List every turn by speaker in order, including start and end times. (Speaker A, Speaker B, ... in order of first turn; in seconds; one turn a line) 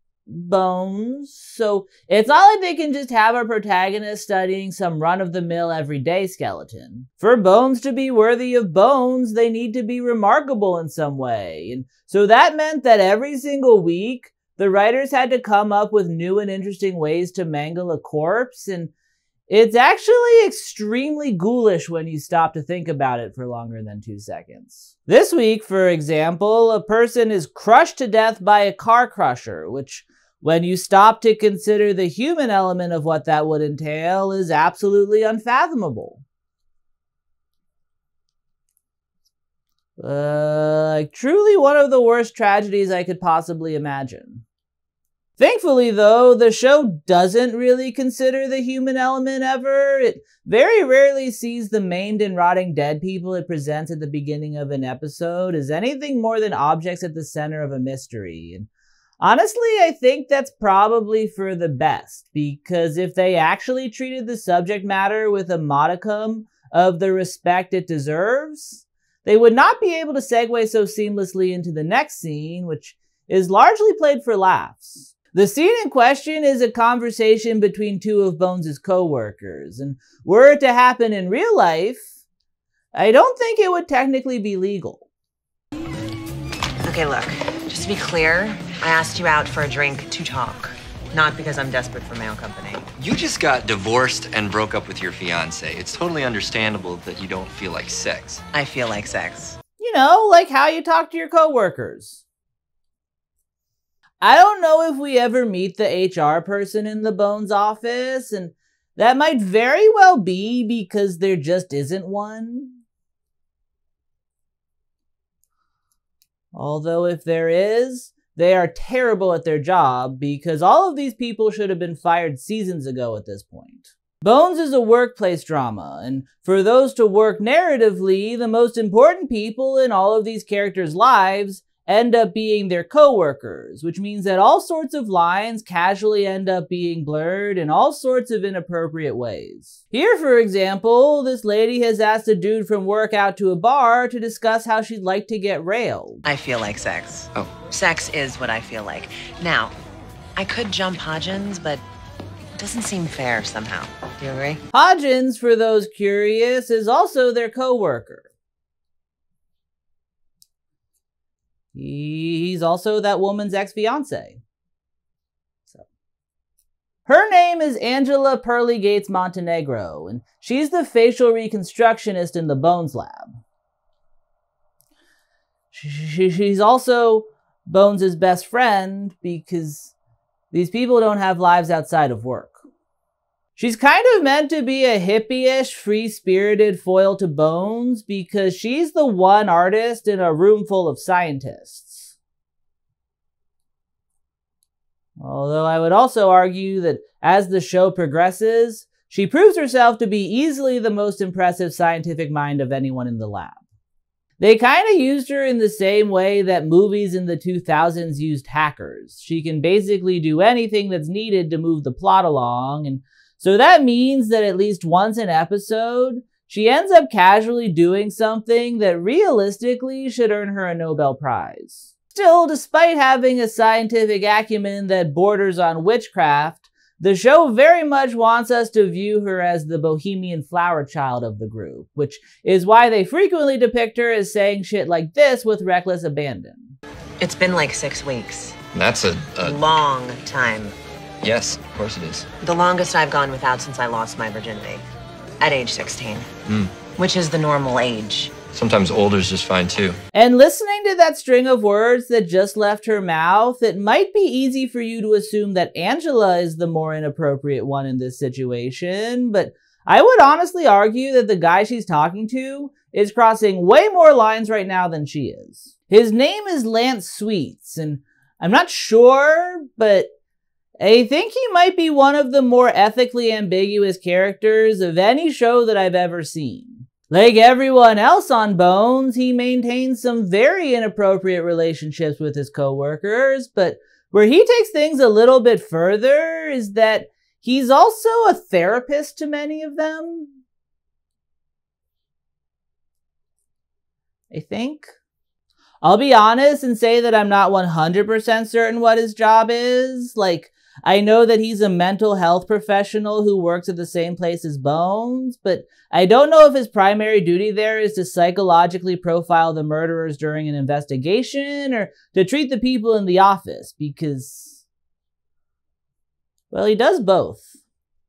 Speaker A: 0.3-18.9
Speaker A: 19.5-36.2
Speaker A: 40.0-44.4
Speaker A: 45.4-58.7
Speaker A: 59.2-82.0
Speaker A: 82.9-85.0
Speaker B: 86.8-92.9
Speaker C: 93.0-98.4
Speaker B: 98.5-99.6
Speaker A: 99.8-102.2
Speaker A: 104.2-112.8
Speaker A: 116.5-146.2
Speaker B: 146.2-149.7
Speaker B: 150.3-151.8
Speaker B: 152.6-154.6
Speaker A: 154.7-158.3
Speaker A: 161.7-164.4
Speaker A: 167.1-173.4
Speaker A: 175.7-179.9
Speaker A: 180.5-182.6
Speaker A: 183.6-192.1
Speaker A: 195.2-203.6
Speaker A: 204.4-236.8
Speaker B: 237.2-238.6
Speaker C: 238.7-239.6
Speaker B: 239.4-240.8
Speaker C: 241.2-242.3
Speaker B: 242.4-244.8
Speaker B: 245.4-246.3
Speaker C: 246.4-246.7
Speaker B: 247.0-248.3
Speaker C: 248.5-250.0
Speaker A: 250.1-270.1
Speaker A: 270.8-290.4
Speaker A: 294.3-294.9
Speaker A: 295.8-314.6
Speaker A: 316.5-317.4